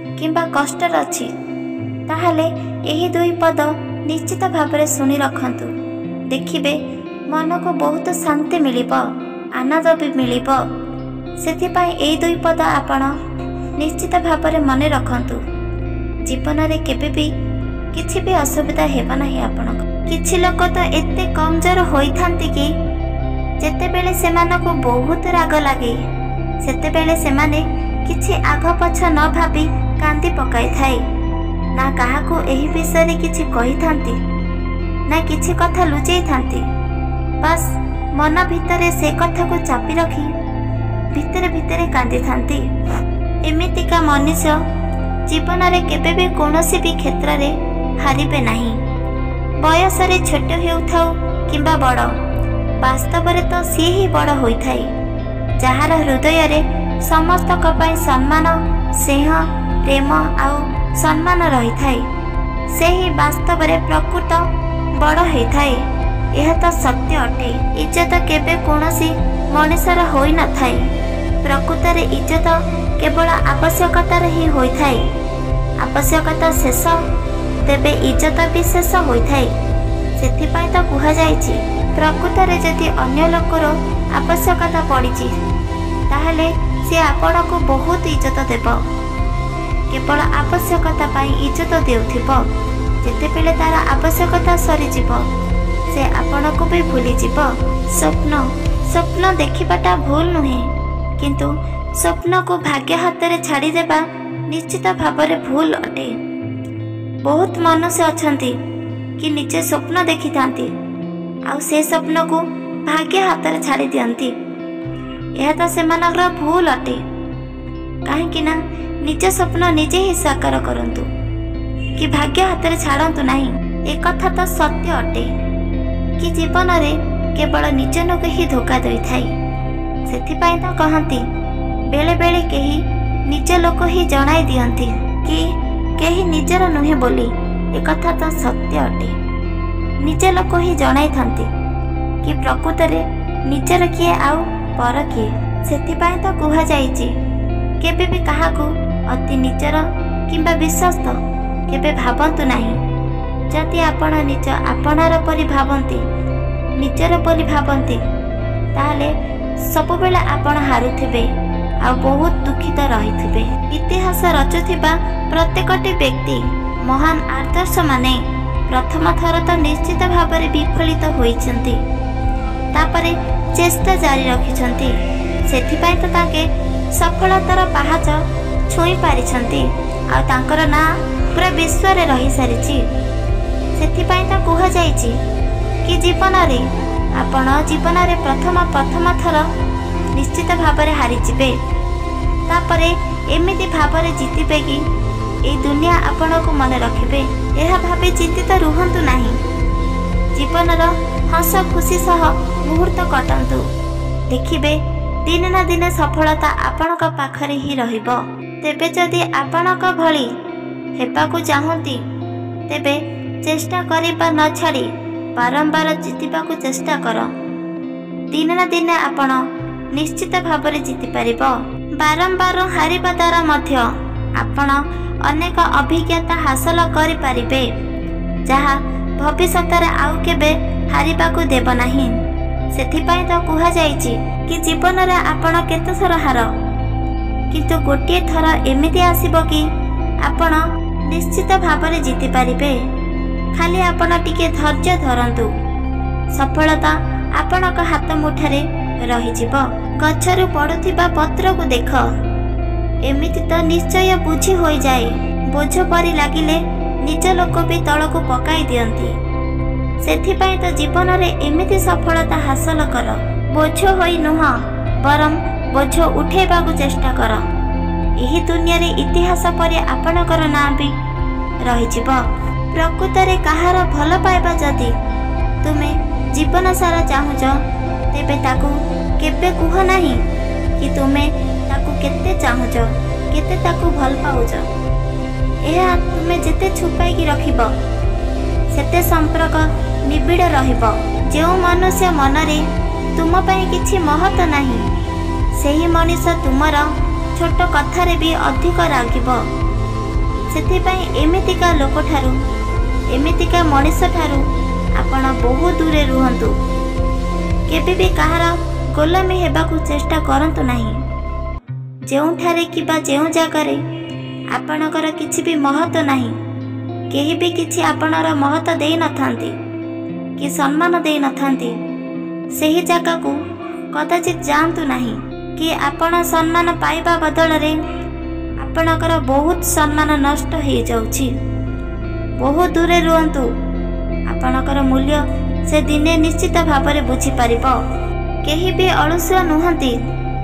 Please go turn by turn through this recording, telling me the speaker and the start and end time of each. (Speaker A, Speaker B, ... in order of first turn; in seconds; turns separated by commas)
Speaker A: 0.2-1.3, Speaker A: 2.1-5.7, Speaker A: 6.3-10.6, Speaker A: 11.4-13.1, Speaker A: 13.8-15.4, Speaker A: 16.2-17.3, Speaker A: 17.9-22.7, Speaker A: 23.6-26.0, Speaker A: 26.6-31.0, Speaker A: 31.7-34.2, Speaker A: 35.1-36.6, Speaker A: 37.4-40.3, Speaker A: 41.1-42.7, Speaker A: 43.4-44.6, Speaker A: 45.3-48.8, Speaker A: 49.6-52.1, Speaker A: 52.8-54.9, Speaker A: 55.6-62.1, Speaker A: 62.7-70.9, Speaker A: 71.4-75.0, Speaker A: 75.8-77.0, Speaker A: 77.6-79.5, Speaker A: 80.2-85.3, Speaker A: 86.1-88.8, Speaker A: 89.9-92.5, Speaker A: 93.0-95.2, Speaker A: 95.9-106.1, Speaker A: 107.2-108.6, Speaker A: 109.2-110.7, Speaker A: 111.5-114.3, Speaker A: 115.4-117.0, Speaker A: 118.0-121.1, Speaker A: 122.0-125.3, Speaker A: 126.2-129.3, Speaker A: 130.1-131.2, Speaker A: 131.9-139.2, Speaker A: 140.0-141.5, Speaker A: 142.2-147.1, Speaker A: 147.8-151.2, Speaker A: 151.7-152.8, Speaker A: 153.5-156.0, Speaker A: 156.8-158.0, Speaker A: 158.7-171.8, Speaker A: 172.7-182.9, Speaker A: 183.7-185.2, Speaker A: 185.8-189.5, Speaker A: 190.1-191.6, Speaker A: 192.5-194.8, Speaker A: 195.4-199.4, Speaker A: 200.3-203.7, Speaker A: 204.3-210.3, Speaker A: 210.9-212.0, Speaker A: 212.7-217.3, Speaker A: 218.3-227.7, Speaker A: 228.4-232.2, Speaker A: 232.7-236.5, Speaker A: 237.5-239.7, Speaker A: 240.2-242.8, Speaker A: 243.5-245.5, Speaker A: 246.3-252.1, Speaker A: 253.0-259.1, Speaker A: 260.0-267.4, Speaker A: 268.2-270.9, Speaker A: 271.6-274.9, Speaker A: 275.6-280.2, Speaker A: 280.8-284.7, Speaker A: 285.6-287.7, Speaker A: 288.7-292.6, Speaker A: 293.1-294.8, Speaker A: 295.6-299.4, Speaker A: 300.5-302.4, Speaker A: 303.1-304.4, Speaker A: 304.9-306.5, Speaker A: 307.7-311.0, Speaker A: 312.1-313.8, Speaker A: 314.5-316.4, Speaker A: 317.1-319.6, Speaker A: 320.4-321.8, Speaker A: 322.5-323.4, Speaker A: 323.9-327.8, Speaker A: 328.6-331.3, Speaker A: 332.4-333.5, Speaker A: 334.3-337.8, Speaker A: 338.4-340.0